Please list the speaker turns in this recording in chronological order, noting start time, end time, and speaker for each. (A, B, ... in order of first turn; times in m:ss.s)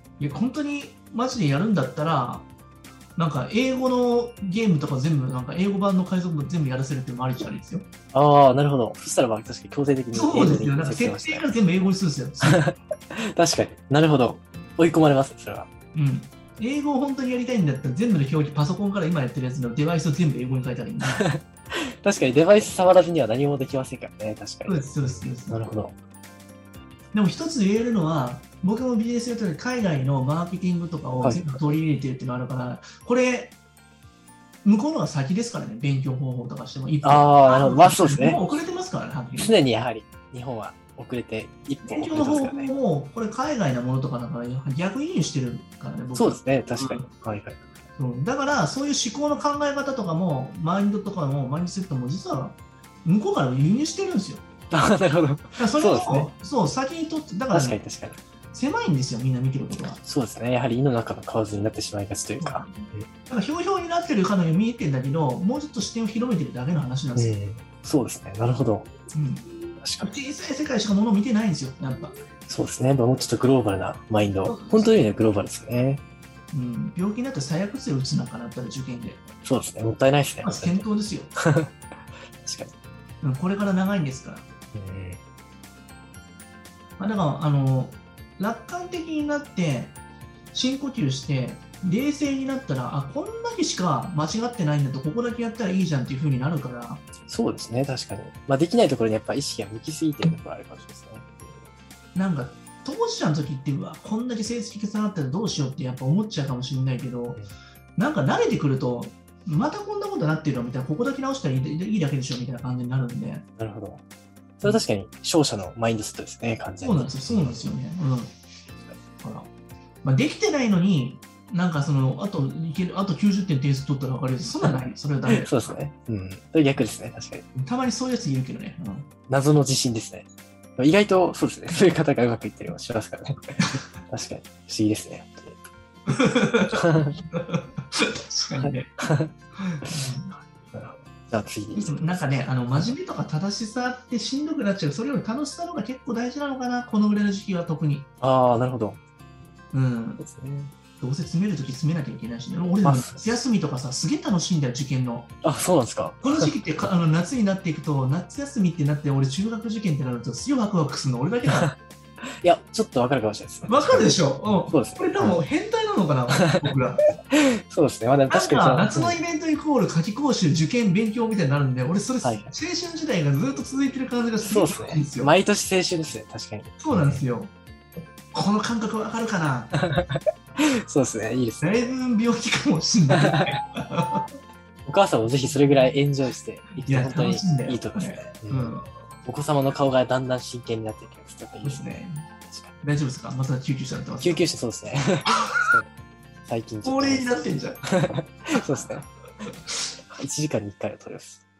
0:00.2-0:02.5 A
0:03.2-0:07.9 A
0:08.1-0:11.5 B
0:10.1-0:12.7 A
0:12.4-0:12.7 B
0:13.4-0:15.7 B
0:15.9-0:21.2 A
0:21.0-0:26.0 B
0:24.6-0:25.6 A
0:27.1-0:33.6 A
0:31.2-0:31.8 B
0:34.6-0:39.5 A
0:37.0-0:38.4 B
0:39.3-0:42.7 B
0:41.8-0:47.1 A
0:46.2-0:47.6 B
0:48.0-0:54.4 A
0:54.7-0:56.3 B
0:55.6-0:57.8 A
0:57.5-0:58.2 B
0:58.5-1:00.0 A
1:00.0-1:03.1 B
1:02.4-1:07.4 A
1:07.2-1:09.0 B
1:09.1-1:09.5 A
1:09.8-1:10.1 B
1:10.0-1:12.2 A
1:12.5-1:16.0 B
1:14.5-1:15.0 A
1:16.5-1:19.2 A
1:19.4-1:20.8 B
1:20.4-1:21.3 A
1:21.4-1:21.7 B
1:22.4-1:22.7 B
1:23.2-1:24.5 A
1:24.7-1:25.2 B
1:27.0-1:30.0 A
1:30.5-1:37.1 A
1:37.2-1:41.7 B
1:42.2-1:47.4 A
1:48.0-1:53.4 A
1:53.6-1:54.0 B
1:54.6-1:57.7 B
1:56.8-1:58.3 A
1:59.2-1:59.5 A
2:00.0-2:05.5 A
2:04.6-2:07.5 B
2:07.6-2:09.1 A
2:09.2-2:15.6 B
2:16.1-2:18.9 A
2:16.2-2:17.2 B
2:18.5-2:19.3 B
2:19.6-2:20.4 A
2:20.6-2:22.9 B
2:21.7-2:28.1 A
2:28.2-2:29.0 B
2:29.7-2:30.2 A
2:30.2-2:30.8 B
2:31.0-2:35.3 A
2:32.8-2:33.4 B
2:35.4-2:36.6 B
2:36.2-2:41.7 A
2:41.5-2:41.8 B
2:42.4-2:45.4 B
2:43.7-2:47.0 A
2:46.3-2:46.7 B
2:47.3-2:49.2 B
2:48.3-2:55.3 A
2:52.2-2:52.6 B
2:54.4-2:57.2 B
2:56.8-2:57.5 A
2:58.3-2:59.7 A
2:59.7-3:02.0 B
3:01.6-3:04.3 A
3:03.1-3:03.6 B
3:04.8-3:12.8 B
3:05.4-3:05.9 A
3:06.8-3:08.9 A
3:11.6-3:12.3 A
3:12.8-3:14.5 A
3:14.2-3:15.9 B
3:15.3-3:15.7 A
3:16.5-3:19.1 B
3:16.8-3:17.8 A
3:18.5-3:19.0 A
3:20.1-3:21.4 B